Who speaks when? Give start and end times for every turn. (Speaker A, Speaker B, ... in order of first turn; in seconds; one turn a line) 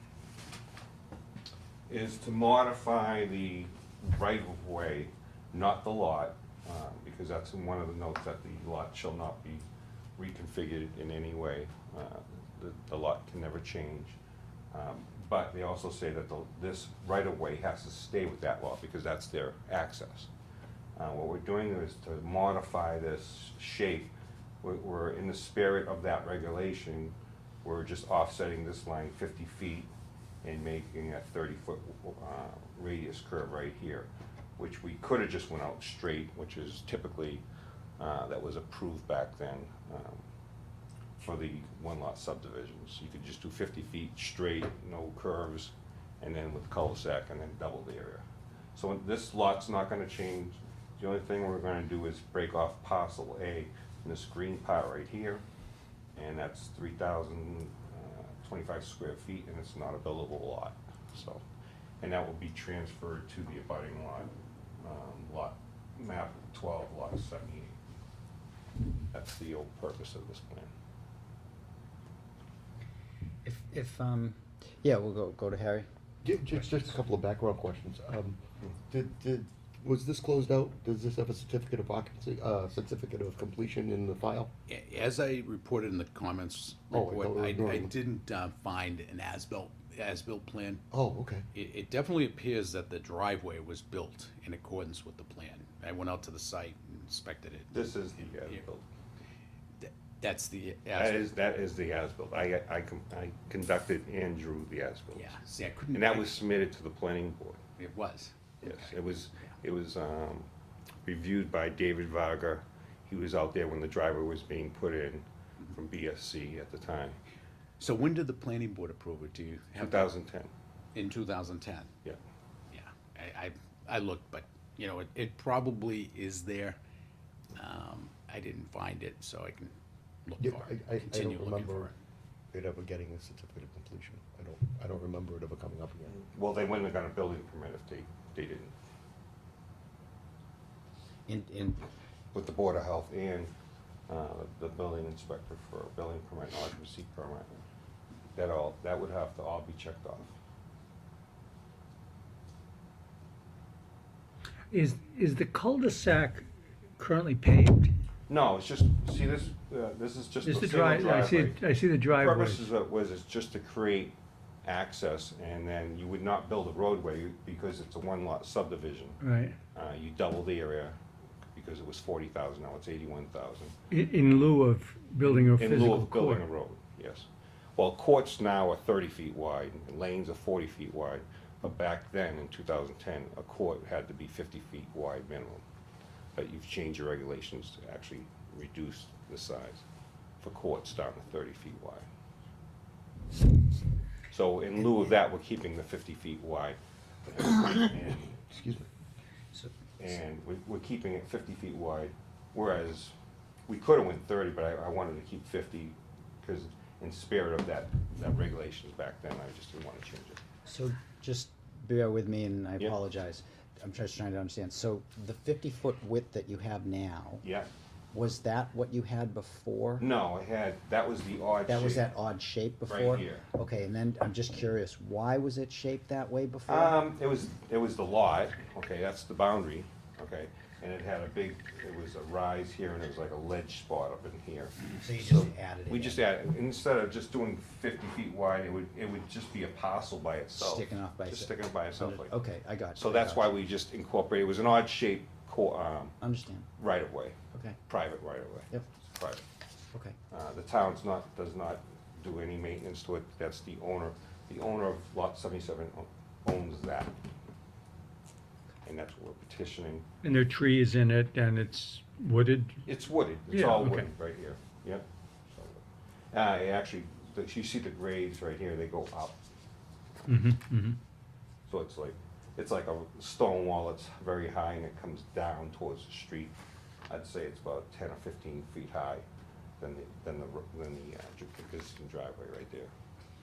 Speaker A: 1.9-9.6
Speaker A: 10.2-14.2
Speaker A: 14.7-20.3
Speaker A: 21.0-29.9
Speaker A: 30.4-37.4
Speaker A: 38.0-40.2
Speaker A: 41.2-55.4
Speaker A: 56.2-61.5
Speaker A: 62.0-67.8
Speaker A: 69.1-70.7
Speaker B: 73.5-75.9
Speaker C: 76.2-84.5
Speaker D: 84.7-90.8
Speaker C: 86.9-87.9
Speaker C: 90.9-91.5
Speaker D: 91.5-98.6
Speaker A: 97.7-98.8
Speaker D: 99.8-101.3
Speaker A: 101.0-105.4
Speaker D: 105.1-106.4
Speaker A: 105.9-107.6
Speaker D: 107.8-109.0
Speaker A: 108.6-110.5
Speaker A: 111.0-117.2
Speaker D: 117.8-120.1
Speaker A: 119.8-120.5
Speaker D: 121.0-121.9
Speaker D: 122.7-126.8
Speaker D: 127.5-129.7
Speaker D: 130.2-131.9
Speaker C: 130.4-131.9
Speaker C: 132.5-136.2
Speaker A: 136.2-138.7
Speaker B: 141.3-141.8
Speaker A: 142.3-143.5
Speaker A: 144.1-147.6
Speaker A: 148.3-150.3
Speaker E: 154.7-156.4
Speaker E: 157.0-157.9
Speaker A: 158.3-169.2
Speaker E: 160.4-162.7
Speaker E: 169.2-169.6
Speaker A: 169.8-171.0
Speaker A: 171.5-173.8
Speaker E: 173.9-176.4
Speaker A: 175.2-185.6
Speaker A: 186.3-189.8
Speaker A: 190.4-192.1
Speaker A: 194.3-198.4
Speaker C: 198.5-198.8
Speaker A: 200.0-203.1
Speaker A: 203.7-210.4
Speaker B: 210.7-217.4
Speaker A: 217.4-217.7
Speaker B: 218.1-220.0
Speaker A: 220.0-222.1
Speaker B: 221.7-227.0
Speaker A: 222.9-223.5
Speaker A: 226.7-242.3
Speaker B: 234.9-236.2
Speaker B: 240.6-243.5
Speaker A: 242.9-246.2
Speaker B: 246.2-246.7
Speaker A: 246.8-247.3
Speaker B: 247.5-247.8
Speaker A: 247.9-249.4
Speaker A: 250.3-257.1
Speaker A: 258.8-260.1
Speaker E: 260.2-262.8
Speaker A: 262.8-265.8
Speaker E: 263.5-264.1
Speaker A: 266.3-269.4
Speaker E: 270.3-271.0
Speaker A: 271.7-276.6
Speaker A: 277.1-279.2
Speaker A: 279.8-282.9